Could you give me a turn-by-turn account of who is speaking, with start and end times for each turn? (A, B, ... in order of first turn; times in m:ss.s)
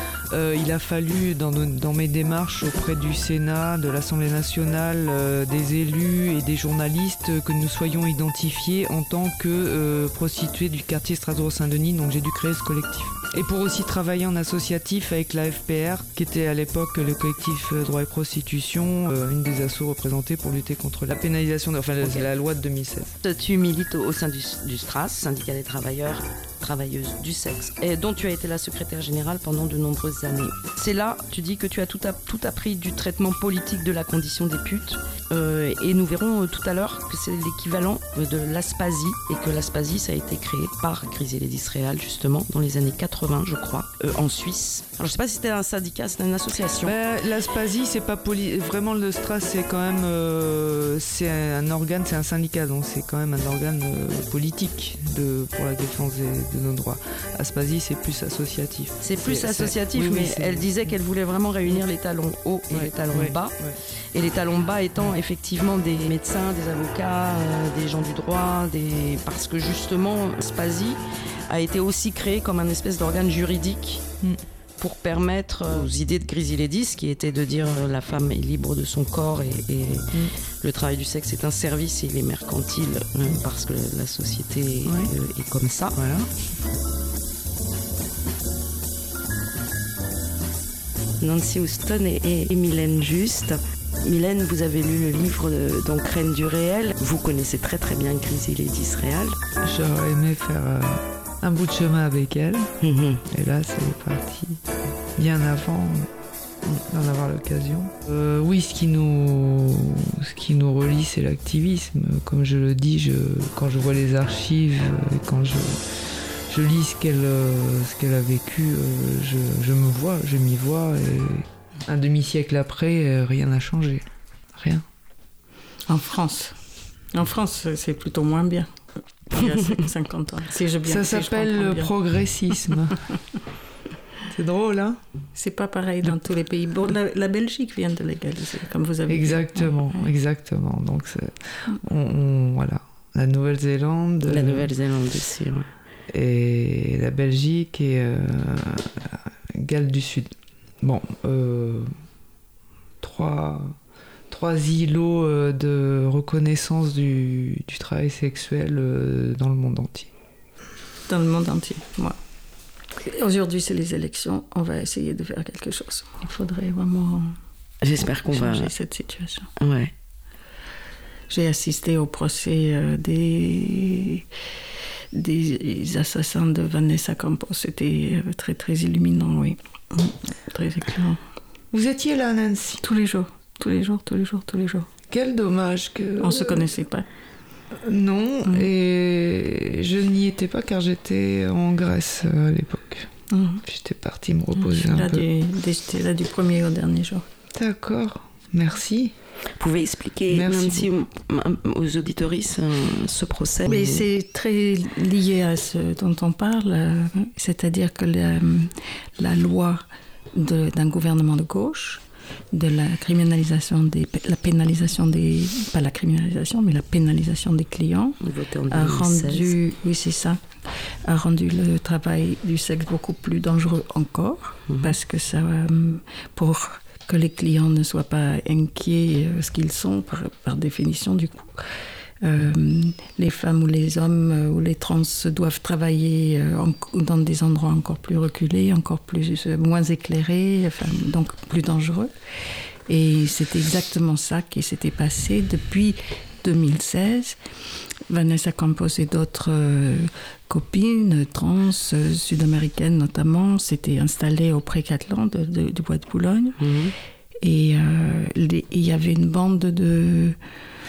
0:00.3-0:23.2 A
0:22.0-0:22.3 B
0:23.2-0:47.0 B
0:46.8-1:00.7 A
0:59.0-1:03.6 B
1:02.7-1:03.8 A
1:04.1-1:14.0 B
1:14.8-1:20.1 B
1:20.6-1:26.0 B
1:24.8-1:25.1 A
1:26.0-1:26.3 A
1:31.2-1:39.4 B
1:39.6-1:42.7 A
1:42.8-1:43.2 B
1:43.3-1:44.6 A
1:45.2-1:46.1 A
1:46.6-1:55.8 A
1:56.5-2:04.8 A
2:05.9-2:06.6 C
2:07.1-2:08.8 C
2:09.3-2:11.9 C
2:10.9-2:13.0 A
2:14.3-2:15.0 A
2:15.4-2:19.8 C
2:19.1-2:24.7 A
2:24.2-2:25.7 B
2:26.1-2:30.3 A
2:30.8-2:31.9 A
2:33.0-2:33.8 A
2:34.3-2:40.1 A
2:41.1-2:42.2 C
2:43.0-2:47.4 C
2:47.8-2:48.7 B
2:48.3-2:49.5 C
2:49.6-2:49.9 B
2:51.3-2:54.2 C
2:55.1-3:01.2 C
3:01.7-3:02.8 A
3:02.8-3:04.9 C
3:05.1-3:06.7 A
3:06.2-3:07.1 C
3:07.8-3:13.1 A
3:13.3-3:13.6 C
3:13.6-3:15.2 A
3:14.6-3:17.3 C
3:17.5-3:19.1 A
3:19.6-3:24.1 B
3:20.3-3:20.9 A
3:23.7-3:38.2 C
3:38.2-3:39.6 B
3:38.7-3:40.4 C
3:41.0-3:51.5 C
3:44.7-3:45.0 B
3:52.2-4:02.1 C
4:02.9-4:07.4 C
4:08.1-4:16.6 C
4:16.6-4:16.9 B
4:17.4-4:20.4 C